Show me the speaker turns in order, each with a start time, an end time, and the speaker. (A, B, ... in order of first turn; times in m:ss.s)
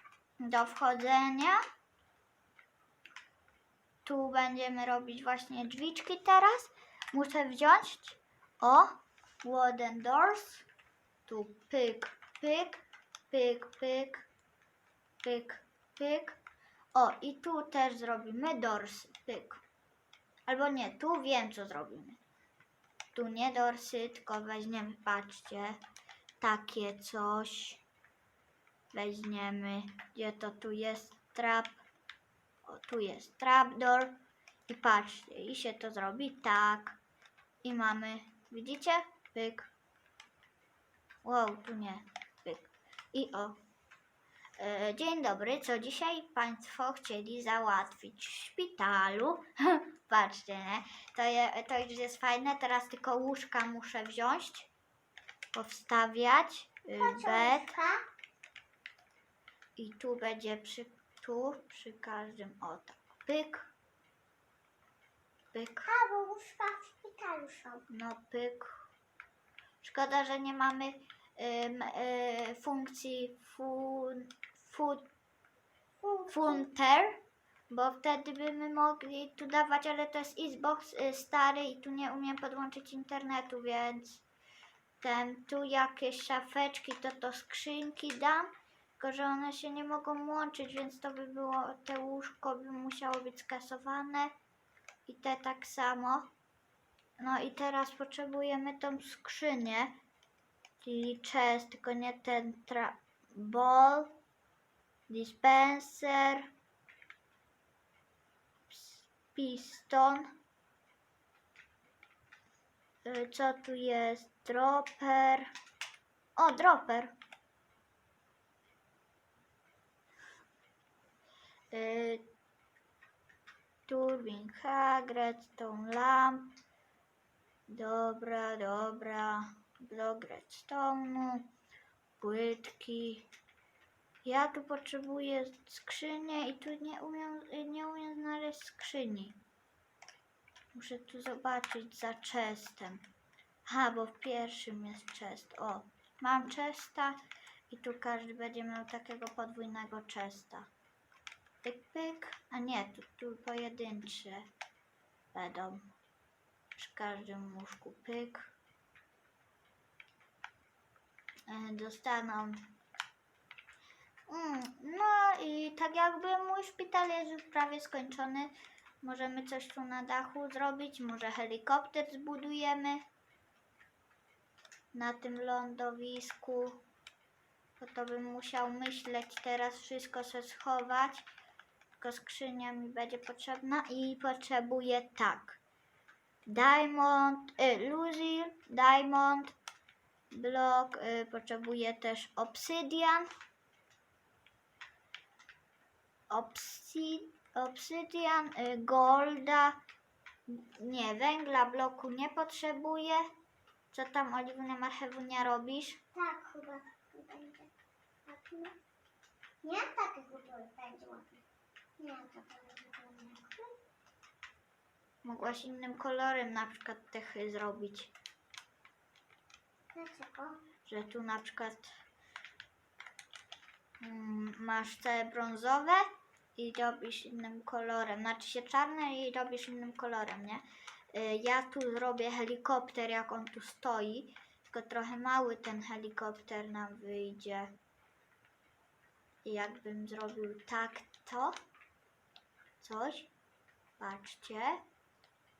0:00.4-0:01.6 A
0:04.0-0:10.6 A
0:11.2-0:14.3 A
0:15.2-0:16.4 A
0:16.9-0:19.6 A
0:20.5-0:22.2 A
0:23.1-0:25.8 A
0:26.4-0:27.8 A
0:28.9-0:31.8 A
0:32.6-0:34.1 A
0:34.7-0:37.0 A
0:37.6-0:39.7 A
0:41.2-0:43.6 A
0:44.6-0:54.7 A
0:55.5-0:57.8 A
0:56.9-0:58.0 B
0:59.8-1:03.7 A
1:05.5-1:05.9 A
1:05.8-1:07.8 B
1:07.9-1:08.7 A
1:09.8-1:15.0 A
1:16.0-1:16.6 B
1:16.3-1:24.2 A
1:25.0-1:34.3 A
1:35.0-1:36.3 A
1:37.2-1:39.9 A
1:40.8-1:44.1 A
1:45.1-1:46.5 A
1:48.7-1:50.3 A
1:53.0-1:55.5 A
1:56.4-1:57.1 A
2:01.7-2:02.2 A
2:03.9-2:06.5 A
2:07.7-2:11.5 A
2:12.2-2:13.3 A
2:14.2-2:19.4 A
2:20.7-2:23.0 A
2:23.6-2:27.2 A
2:27.7-2:30.7 A
2:31.6-2:34.5 A
2:35.3-2:35.9 A
2:36.8-2:38.5 A
2:41.5-2:42.7 A
2:44.3-2:53.0 A
2:54.9-2:56.8 A
2:57.8-3:01.2 A
3:02.0-3:05.6 A
3:06.4-3:09.5 A
3:10.3-3:13.3 A
3:16.3-3:19.8 A
3:20.5-3:23.2 A
3:23.9-3:26.0 A
3:26.1-3:27.7 B
3:28.3-3:28.7 B
3:29.6-3:31.4 B
3:32.0-3:33.7 B
3:35.2-3:38.1 A
3:39.9-3:40.6 B
3:40.8-3:41.9 A
3:44.0-3:57.7 A
3:59.4-4:01.5 A
4:02.8-4:03.3 A
4:04.0-4:04.8 A